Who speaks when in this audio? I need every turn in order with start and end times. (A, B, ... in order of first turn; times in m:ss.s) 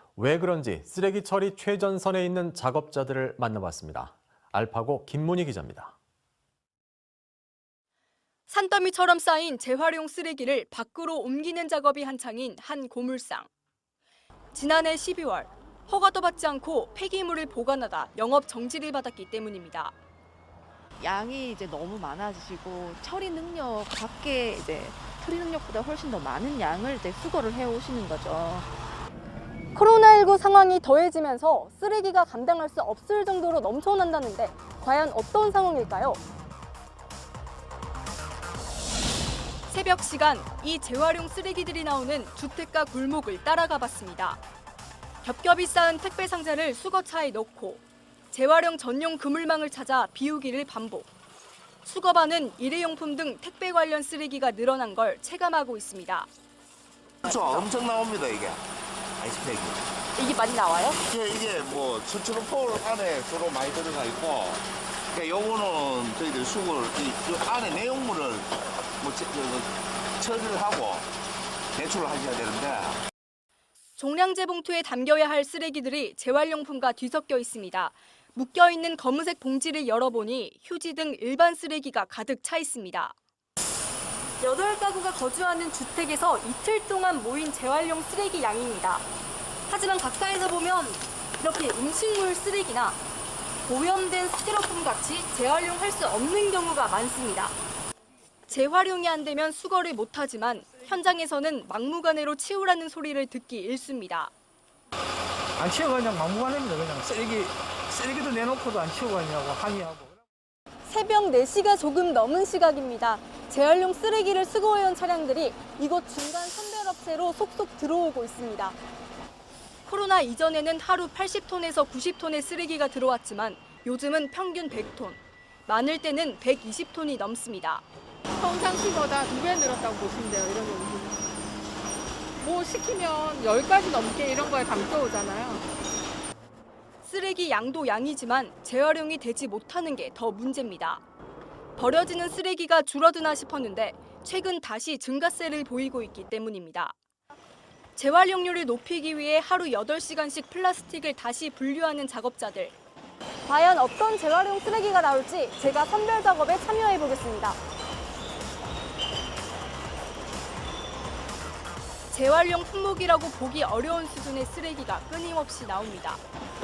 0:00.2-0:05.9 A
0:08.5-0:13.5 B
0:14.5-0:19.9 B
0:21.0-0:28.7 C
0:29.8-0:36.2 B
0:39.7-0:44.4 B
0:45.2-0:51.1 B
0:51.8-0:56.3 B
0:57.2-0:58.6 D
0:59.2-0:59.8 D
1:01.0-1:08.5 D
1:09.0-1:11.1 D
1:11.7-1:13.0 D
1:14.0-1:23.1 B
1:24.4-1:29.1 B
1:29.7-1:33.0 B
1:33.6-1:37.5 B
1:38.5-1:44.3 B
1:45.6-1:50.1 E
1:50.9-1:58.8 B
1:59.8-2:07.8 B
2:08.4-2:11.2 F
2:12.4-2:15.6 F
2:17.0-2:21.0 B
2:21.8-2:26.9 B
2:28.0-2:32.7 B
2:33.5-2:37.6 B
2:42.1-2:46.2 B